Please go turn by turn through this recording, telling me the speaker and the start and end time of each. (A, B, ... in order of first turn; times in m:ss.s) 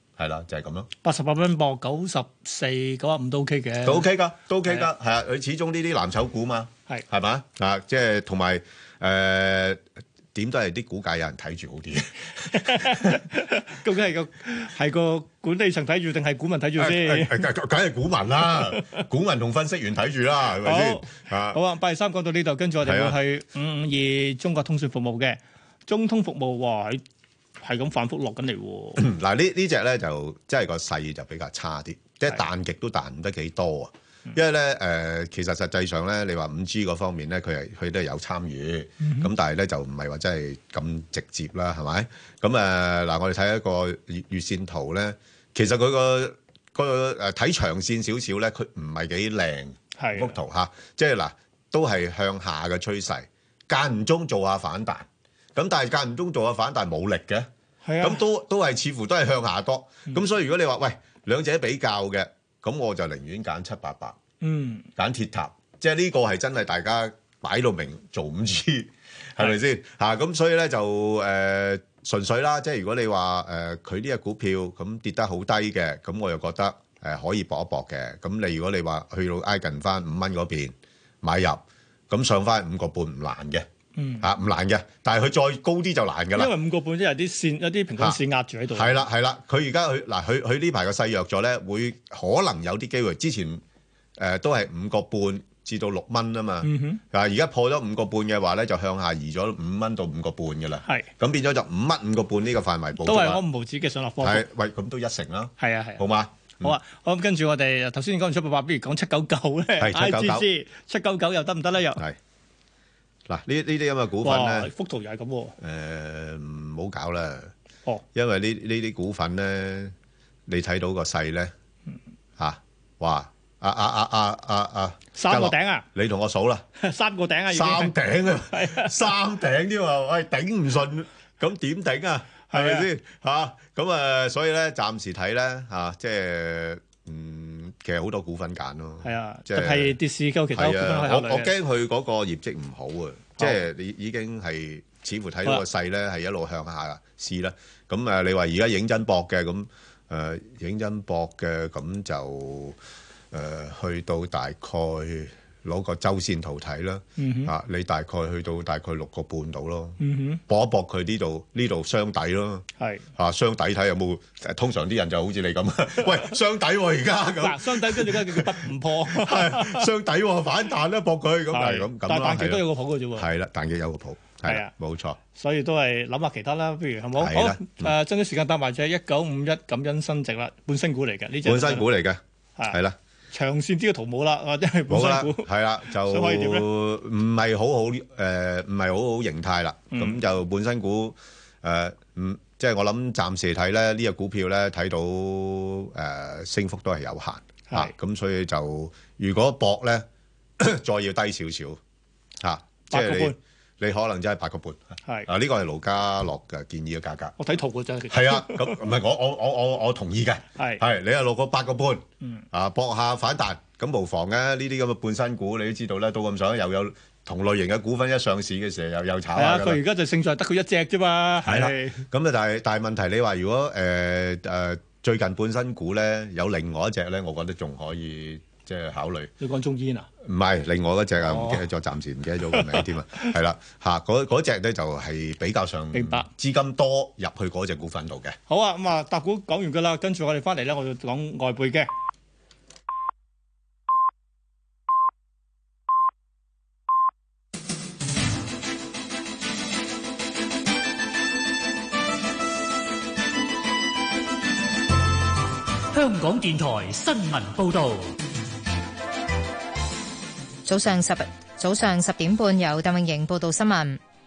0:00.2-0:00.9 A
0:01.0-0:04.1 B
0:03.8-0:09.8 A
0:10.3-0:13.2 A
0:12.5-0:17.4 B
0:16.8-0:21.6 A
0:20.6-0:27.0 B
0:22.8-0:23.2 A
0:27.6-0:29.0 B
0:29.0-0:57.5 A
0:39.0-0:39.3 B
0:50.0-0:50.4 B
0:57.8-0:58.2 B
0:58.0-1:04.2 A
1:04.4-1:04.9 B
1:05.0-1:23.7 A
1:24.0-1:24.3 B
1:24.2-1:26.5 A
1:26.4-1:29.0 B
1:28.7-1:33.6 A
1:34.2-1:43.4 A
1:36.6-1:37.0 B
1:43.0-1:44.4 B
1:44.2-1:46.7 A
1:45.6-1:46.0 B
1:46.6-1:52.0 B
1:49.8-1:50.5 A
1:53.3-1:54.7 A
1:54.2-1:55.6 B
1:55.6-1:57.5 A
1:58.1-1:59.9 A
2:00.5-2:01.5 A
2:02.4-2:06.7 A
2:05.1-2:05.9 B
2:06.8-2:08.0 B
2:07.5-2:20.0 A
2:08.5-2:08.9 B
2:12.5-2:12.9 B
2:19.0-2:21.5 B
2:20.5-2:32.8 A
2:33.3-2:42.6 A
2:37.2-2:37.5 B
2:40.0-2:40.4 B
2:42.8-2:43.0 B
2:43.2-2:48.5 A
2:47.4-2:49.9 B
2:49.1-2:52.6 A
2:51.5-2:53.3 B
2:53.2-2:55.2 A
2:54.4-2:54.7 B
2:55.4-3:01.9 B
2:57.2-2:57.9 A
3:01.4-3:03.0 A
3:03.3-3:05.5 B
3:04.9-3:20.0 A
3:06.0-3:06.7 B
3:09.9-3:10.2 B
3:20.6-3:21.8 A
3:22.4-3:27.4 A
3:22.9-3:23.4 B
3:27.4-3:28.7 B
3:28.1-3:39.8 A
3:39.4-3:42.0 B
3:41.4-3:49.3 A
3:49.4-3:50.1 B
3:50.2-3:58.4 A
3:51.2-3:51.6 B
3:52.5-3:52.8 B
3:55.9-3:56.3 B
3:58.5-4:01.9 B
4:15.9-4:18.2 C
4:20.7-4:24.0 D